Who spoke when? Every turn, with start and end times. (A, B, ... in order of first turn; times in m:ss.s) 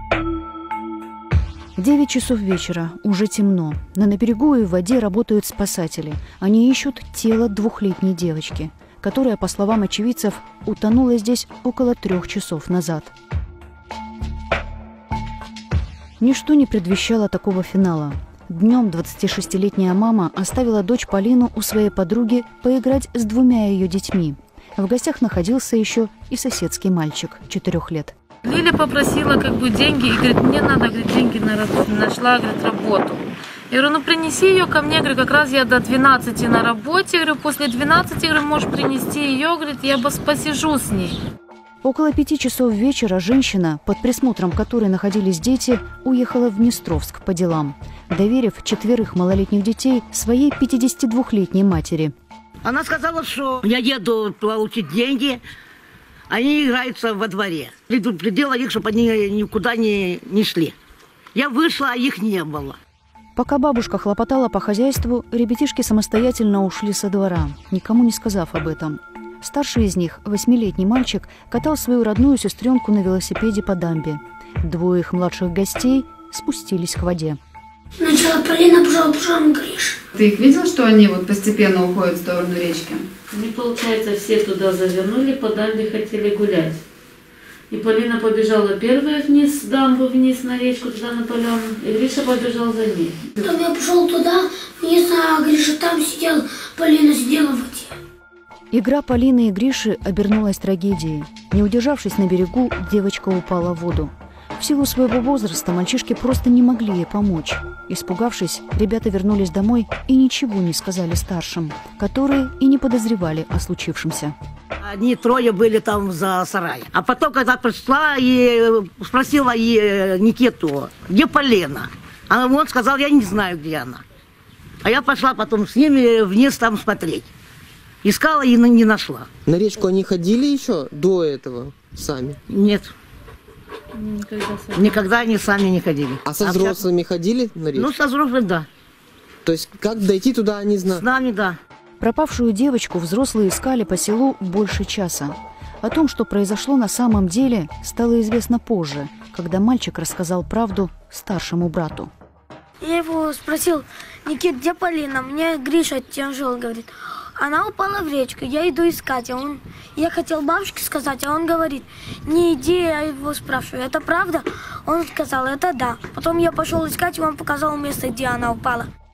0:01.8-0:13.1 A
0:16.2-0:28.1 A
0:28.4-0:41.2 B
0:41.8-0:52.1 A
0:52.6-0:55.4 C
0:56.3-1:00.7 C
1:01.3-1:02.8 C
1:03.4-1:17.4 A
1:18.0-1:20.0 D
1:20.1-1:23.0 E
1:23.3-1:26.8 B
1:27.7-1:33.2 B
1:33.4-1:37.9 D
1:38.7-1:54.3 A
1:54.8-2:04.0 C
2:04.8-2:07.3 C
2:08.0-2:09.3 C
2:09.5-2:12.4 F
2:12.5-2:12.9 C
2:14.0-2:14.9 B
2:14.7-2:16.8 C
2:16.3-2:17.9 F
2:17.7-2:18.7 C
2:19.4-2:21.0 F
2:20.8-2:21.6 C
2:22.0-2:32.1 A
2:32.8-2:48.9 D